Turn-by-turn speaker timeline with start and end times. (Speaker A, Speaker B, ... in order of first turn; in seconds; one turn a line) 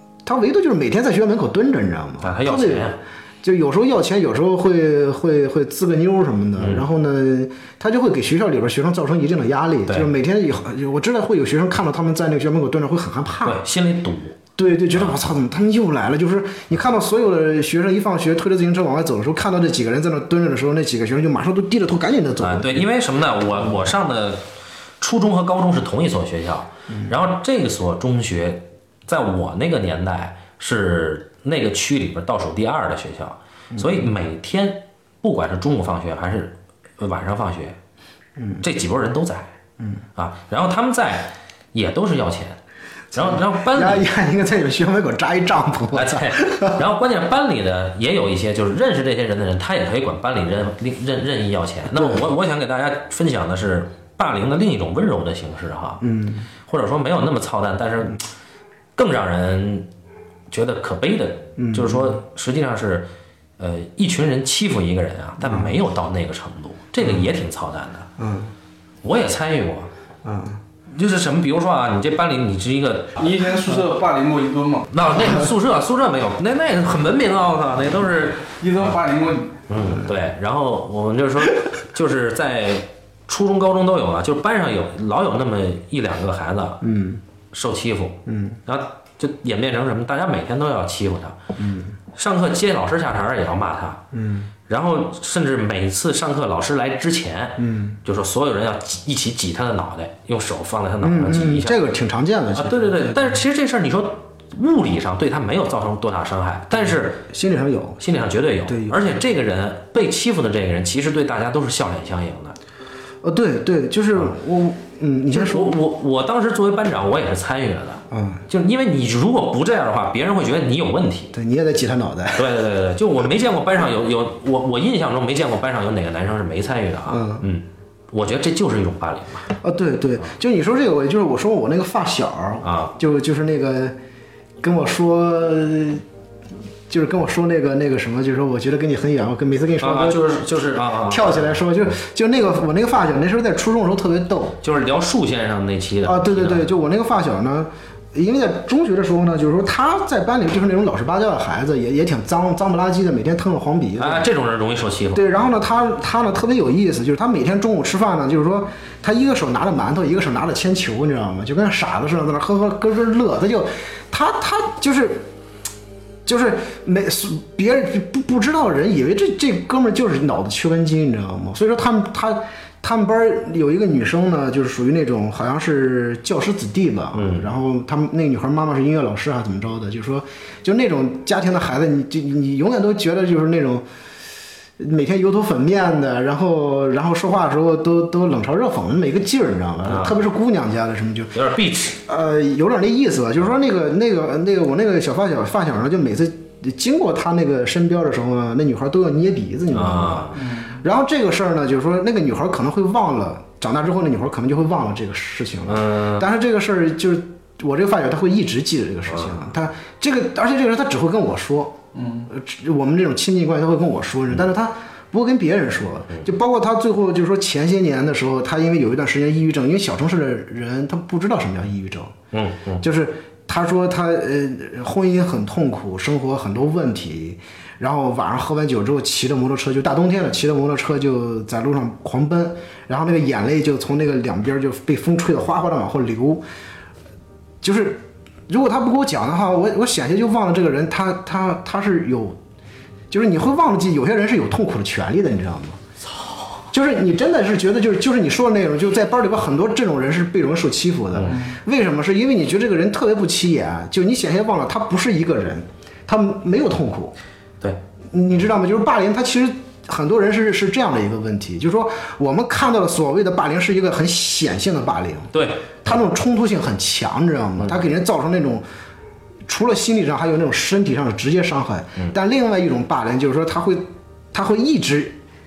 Speaker A: 0.2-13.6
Speaker B: 2.2-3.0
Speaker B: 6.6-6.8
Speaker B: 13.4-14.4
Speaker A: 14.6-22.9
Speaker B: 14.9-15.2
Speaker B: 22.4-24.4
Speaker B: 25.0-37.8
Speaker A: 33.7-34.1
Speaker A: 38.4-38.6
Speaker B: 38.6-39.5
Speaker B: 40.1-42.6
Speaker B: 43.1-44.0
Speaker A: 43.1-46.8
Speaker B: 45.9-56.0
Speaker A: 51.9-52.2
Speaker A: 56.0-56.5
Speaker B: 56.7-58.3
Speaker B: 59.0-59.9
Speaker B: 60.5-63.1
Speaker A: 61.6-62.2
Speaker B: 63.6-68.1
Speaker A: 65.4-65.8
Speaker A: 68.2-68.5
Speaker B: 69.0-69.9
Speaker A: 70.2-70.6
Speaker B: 70.9-73.2
Speaker C: 73.2-74.9
Speaker B: 74.9-78.4
Speaker C: 78.5-79.5
Speaker B: 79.7-86.8
Speaker A: 86.8-87.2
Speaker B: 87.5-91.4
Speaker A: 88.2-88.6
Speaker A: 91.6-91.9
Speaker B: 92.2-94.0
Speaker A: 94.1-94.5
Speaker B: 94.7-101.8
Speaker A: 97.6-98.0
Speaker A: 101.0-103.3
Speaker B: 102.5-107.2
Speaker A: 106.7-108.0
Speaker B: 108.0-112.5
Speaker A: 108.7-109.0
Speaker A: 113.2-115.8
Speaker B: 115.3-121.3
Speaker A: 118.1-118.4
Speaker A: 121.3-122.5
Speaker B: 122.3-129.5
Speaker A: 127.1-127.4
Speaker A: 129.6-133.9
Speaker B: 132.6-132.9
Speaker A: 134.6-136.0
Speaker A: 136.9-140.2
Speaker B: 139.8-141.6
Speaker A: 141.1-144.6
Speaker B: 144.6-146.7
Speaker A: 146.0-154.3
Speaker B: 154.0-155.3
Speaker A: 155.1-165.2
Speaker A: 166.2-183.8
Speaker B: 177.1-177.5
Speaker A: 184.8-191.4
Speaker B: 189.9-190.2
Speaker B: 191.3-192.0
Speaker A: 192.0-211.8
Speaker B: 199.7-200.4
Speaker C: 200.3-200.8
Speaker B: 205.7-206.2
Speaker B: 209.1-209.4
Speaker C: 211.9-212.3
Speaker A: 212.3-222.1
Speaker B: 222.3-222.8
Speaker A: 222.8-236.4
Speaker A: 237.6-242.4
Speaker A: 243.1-245.8
Speaker A: 246.7-257.1
Speaker B: 251.1-251.4
Speaker C: 251.2-251.6
Speaker A: 258.1-268.6
Speaker B: 265.3-265.7
Speaker A: 269.5-275.2